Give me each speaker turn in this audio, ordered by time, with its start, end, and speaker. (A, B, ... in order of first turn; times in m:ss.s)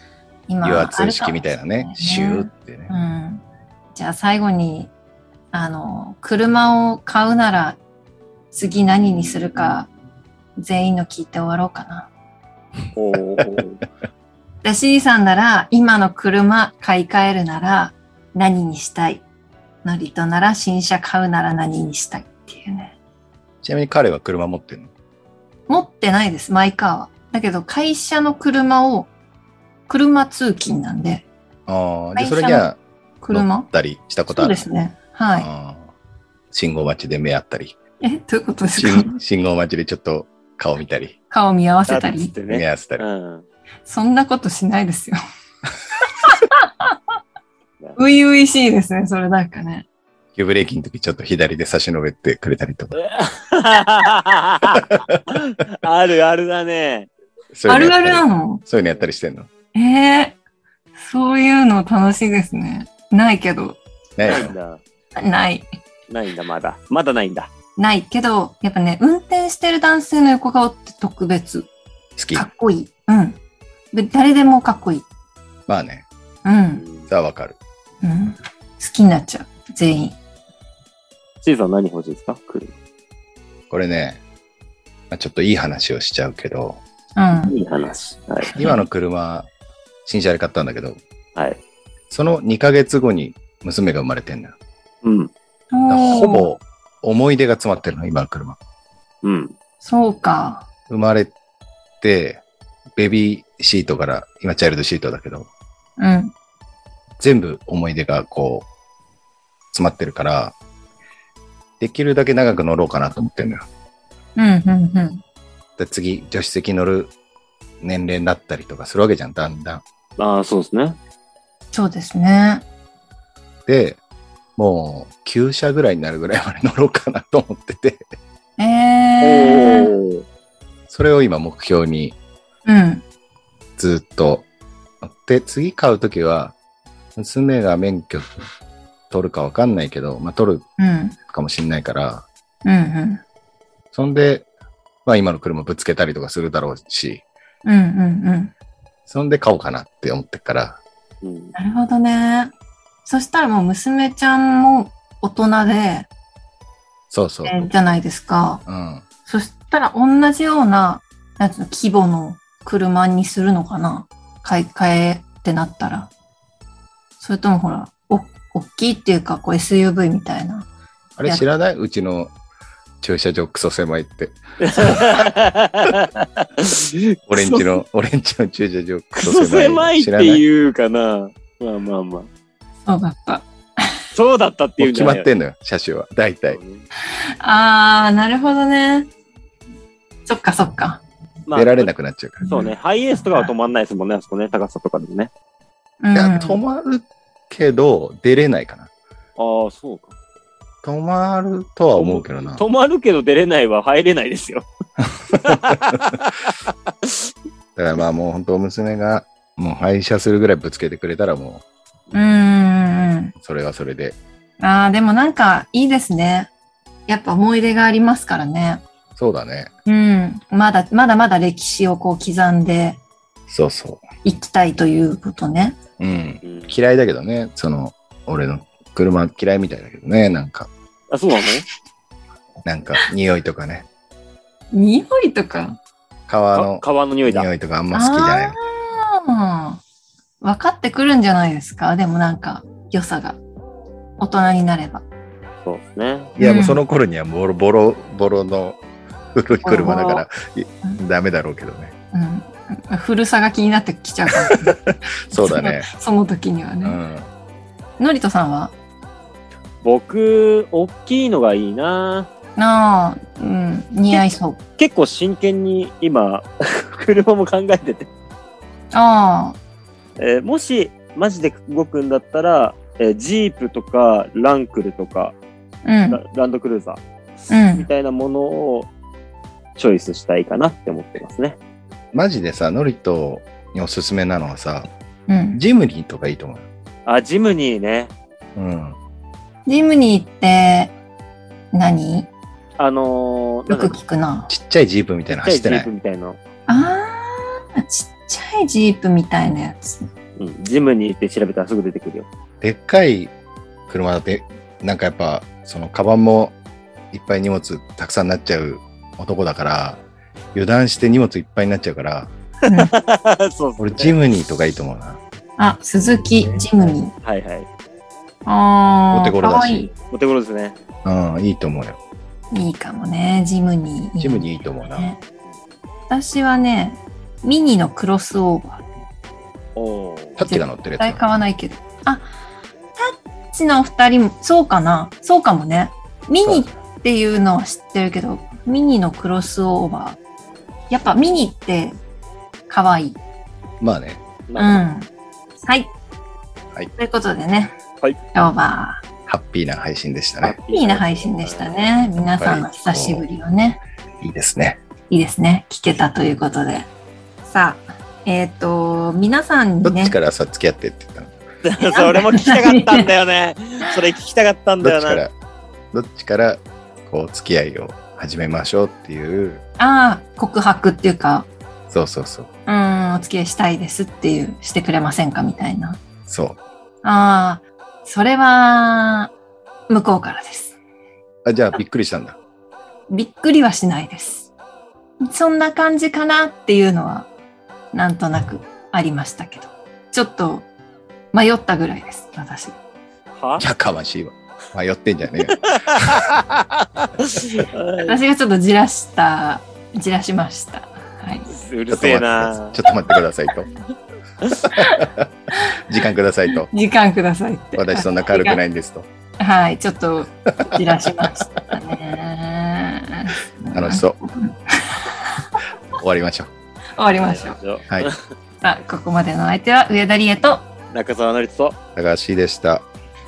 0:00.5-0:04.9 A
0:00.6-0:02.9 B
0:05.5-0:07.8 A
0:08.5-0:09.9 A
0:10.6-0:12.1 A
0:13.0-0:13.8 C
0:14.6-0:19.2 A
0:19.8-0:22.9 A
0:23.6-0:24.9 B
0:25.7-0:29.1 A
0:29.9-0:31.3 A
0:31.7-0:32.8 B
0:32.2-0:32.7 A
0:33.2-0:33.7 A
0:33.3-0:34.6 B
0:34.3-0:35.5 A
0:35.4-0:35.9 B
0:36.5-0:37.8 B
0:38.0-0:39.2 A
0:38.8-0:41.2 B
0:41.3-0:42.3 A
0:41.9-0:43.4 C
0:42.5-0:43.0 B
0:43.9-0:45.2 A
0:46.0-0:47.0 A
0:48.0-0:49.9 A
0:50.4-0:53.0 B
0:53.0-0:57.1 C
0:54.8-0:55.2 B
0:57.5-0:59.5 B
0:57.7-0:58.6 A
0:59.8-1:00.4 A
1:01.0-1:03.8 A
1:04.2-1:04.5 B
1:04.2-1:04.8 C
1:05.2-1:05.7 A
1:06.1-1:07.5 C
1:07.8-1:11.7 A
1:12.2-1:12.5 B
1:12.3-1:13.4 A
1:13.9-1:15.0 A
1:15.7-1:16.1 B
1:16.4-1:16.8 A
1:16.8-1:17.1 C
1:17.1-1:17.6 B
1:18.0-1:20.2 A
1:21.4-1:22.7 C
1:23.7-1:24.2 B
1:25.1-1:26.8 B
1:27.2-1:27.6 A
1:27.5-1:28.6 C
1:28.5-1:28.8 A
1:28.6-1:29.5 B
1:30.0-1:31.0 B
1:32.1-1:34.6 B
1:35.0-1:35.3 C
1:35.7-1:36.5 A
1:35.9-1:38.6 B
1:39.2-1:39.5 C
1:39.8-1:40.7 A
1:40.9-1:41.3 B
1:42.0-1:42.4 B
1:43.0-1:45.5 B
1:46.0-1:46.3 A
1:47.2-1:48.7 B
1:49.7-1:50.6 B
1:51.8-1:53.7 B
1:54.4-1:55.2 A
1:55.8-1:57.1 B
1:57.8-1:59.8 B
2:00.2-2:01.0 C
2:01.7-2:02.6 A
2:03.7-2:04.0 B
2:04.6-2:08.1 B
2:08.6-2:09.9 A
2:09.2-2:10.2 C
2:10.9-2:12.2 B
2:12.7-2:13.0 A
2:13.8-2:14.5 B
2:15.0-2:16.6 B
2:17.2-2:18.3 B
2:19.1-2:20.6 B
2:20.8-2:21.2 A
2:21.3-2:22.3 B
2:22.6-2:23.2 A
2:23.9-2:24.5 B
2:25.0-2:27.2 B
2:27.6-2:28.5 A
2:29.1-2:30.8 B
2:31.2-2:31.6 C
2:31.6-2:32.5 A
2:33.0-2:36.1 A
2:37.1-2:37.7 B
2:37.4-2:38.6 A
2:38.7-2:39.0 B
2:39.3-2:46.1 A
2:47.2-2:50.7 A
2:51.2-2:52.3 B
2:53.0-2:55.2 B
2:54.6-2:57.8 C
2:57.3-3:00.4 B
2:59.2-3:02.3 C
3:02.9-3:03.9 A
3:04.1-3:05.3 C
3:04.8-3:06.6 B
3:06.5-3:06.8 C
3:07.4-3:09.1 A
3:10.3-3:11.0 A
3:11.5-3:11.9 C
3:11.6-3:12.5 B
3:12.5-3:12.7 A
3:12.5-3:15.3 C
3:16.0-3:16.6 A
3:16.1-3:18.9 B
3:19.4-3:20.1 C
3:20.8-3:22.6 B
3:22.0-3:24.7 C
3:25.3-3:27.3 C
3:25.3-3:26.2 B
3:27.8-3:31.6 B
3:32.1-3:33.4 A
3:33.4-3:34.2 B
3:34.6-3:36.5 A
3:37.1-3:38.8 A
3:39.2-3:39.7 B
3:39.9-3:43.0 A
3:43.5-3:44.0 B
3:44.2-3:45.8 A
3:46.0-3:50.7 B
3:46.4-3:46.8 C
3:51.1-3:51.7 C
3:52.6-3:53.9 B
3:54.7-3:55.8 A
3:56.3-3:58.6 B
3:56.6-3:57.5 C
3:57.9-3:59.8 A
4:00.4-4:03.4 A
4:04.2-4:05.0 A
4:05.6-4:06.3 C
4:06.4-4:08.8 B
4:06.4-4:06.8 A
4:09.3-4:11.9 B
4:09.6-4:10.2 A
4:12.1-4:14.8 A
4:14.5-4:15.9 B
4:15.3-4:17.0 A
4:16.8-4:17.3 B
4:18.0-4:18.7 A
4:19.8-4:22.3 C
4:22.6-4:24.6 A
4:24.8-4:28.1 C
4:28.9-4:29.6 A
4:30.2-4:35.4 C
4:35.8-4:36.2 A
4:36.1-4:38.9 C
4:37.5-4:37.9 A
4:39.8-4:41.6 C
4:42.1-4:44.9 B
4:45.3-4:45.6 A
4:45.6-4:46.6 B
4:47.1-4:48.1 C
4:48.6-4:49.0 B
4:49.7-4:51.0 A
4:51.7-4:52.3 A
4:52.8-4:54.0 C
4:53.7-4:54.5 A
4:54.5-4:55.9 B
4:55.3-4:56.4 C
4:56.7-5:00.1 A
5:00.4-5:02.3 C
5:02.6-5:03.3 B
5:03.9-5:06.6 B
5:07.1-5:10.0 B
5:10.5-5:12.3 B
5:12.7-5:12.9 A
5:12.7-5:14.2 C
5:13.8-5:15.2 B
5:15.6-5:17.1 A
5:16.4-5:17.7 C
5:18.5-5:19.9 A
5:19.1-5:19.8 B
5:19.7-5:20.8 C
5:21.0-5:22.0 B
5:22.5-5:25.2 A
5:24.2-5:25.1 B
5:26.1-5:28.8 A
5:29.8-5:30.4 C
5:30.4-5:31.2 B
5:30.5-5:32.3 A
5:33.0-5:40.2 A
5:36.4-5:36.7 B
5:40.9-5:42.0 A
5:42.7-5:43.2 A
5:43.8-5:44.2 B
5:44.5-5:44.9 C
5:44.6-5:45.1 A
5:45.6-5:45.9 A
5:47.0-5:47.8 A
5:48.3-5:49.0 A
5:49.3-5:50.6 B
5:50.4-5:51.8 C
5:50.7-5:53.8 A
5:52.4-5:53.3 B
5:54.2-5:54.8 B
5:55.1-5:56.9 A
5:57.4-6:00.2 A
5:59.8-6:01.4 B
6:01.6-6:05.2 C
6:01.8-6:03.1 A
6:04.8-6:05.3 B
6:05.9-6:09.6 B
6:09.8-6:11.5 A
6:11.9-6:12.5 B
6:12.7-6:16.0 A
6:16.3-6:16.6 B
6:17.0-6:19.3 A
6:19.9-6:20.8 A
6:21.4-6:22.4 B
6:23.1-6:24.5 A
6:25.2-6:27.3 A
6:27.9-6:30.7 A
6:31.3-6:32.8 A
6:33.4-6:33.6 C
6:33.6-6:36.2 B
6:35.5-6:38.2 C
6:38.0-6:41.5 A
6:41.5-6:42.8 C
6:41.9-6:43.7 B
6:44.6-6:46.7 B
6:44.7-6:45.8 A
6:46.5-6:48.6 A
6:47.8-6:49.1 B
6:49.4-6:55.6 A
6:50.7-6:51.3 B
6:53.7-6:54.2 B
6:55.9-6:56.5 B
6:57.0-6:57.6 A
6:57.1-6:58.2 C
6:58.6-7:00.6 A
7:00.9-7:01.8 C
7:02.0-7:02.9 B